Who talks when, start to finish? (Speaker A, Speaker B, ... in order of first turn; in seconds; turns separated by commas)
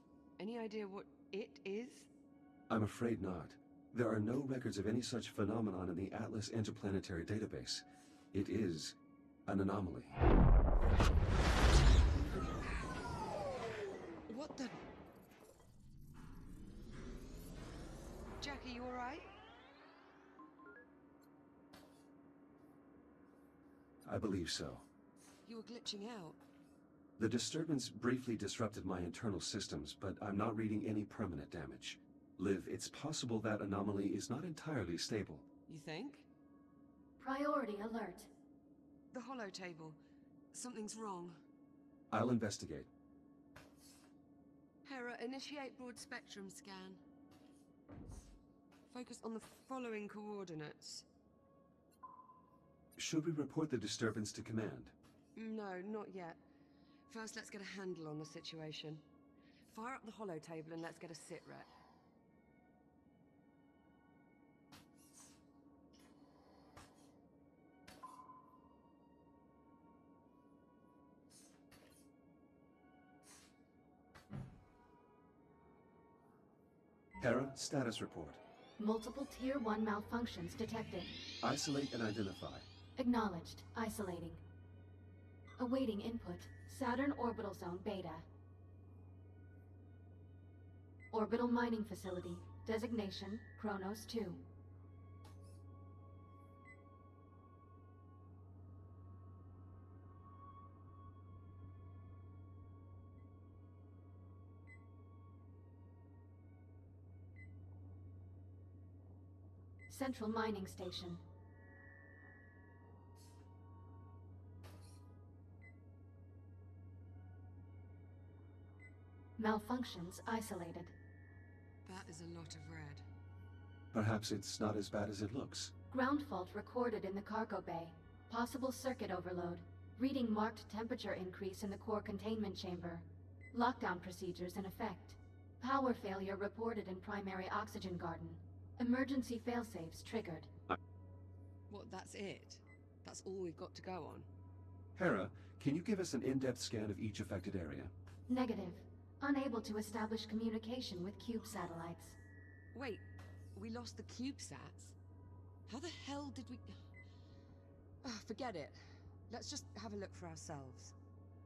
Speaker A: 0.4-2.1, Speaker B: 2.7-10.2, Speaker A: 14.3-14.8, Speaker A: 18.4-19.3, Speaker B: 24.0-24.9, Speaker A: 25.4-26.4, Speaker B: 27.2-35.4, Speaker A: 35.7-36.3, Speaker C: 37.2-38.3, Speaker A: 39.1-40.0, Speaker A: 40.5-41.4, Speaker B: 42.1-42.9, Speaker A: 44.8-47.0, Speaker A: 48.9-51.0, Speaker B: 53.0-54.9, Speaker A: 55.4-56.4, Speaker A: 57.1-59.0, Speaker A: 59.7-61.7, Speaker B: 77.2-78.4, Speaker C: 78.8-81.1, Speaker B: 81.4-82.7, Speaker C: 83.0-84.4, Speaker C: 85.6-88.2, Speaker C: 91.1-94.4, Speaker C: 109.9-111.2, Speaker C: 119.4-120.9, Speaker A: 121.8-123.0, Speaker B: 123.9-125.7, Speaker C: 125.9-140.5, Speaker A: 141.7-144.3, Speaker B: 144.9-147.9, Speaker C: 148.3-152.2, Speaker A: 152.7-154.9, Speaker A: 155.7-156.8, Speaker A: 158.0-160.9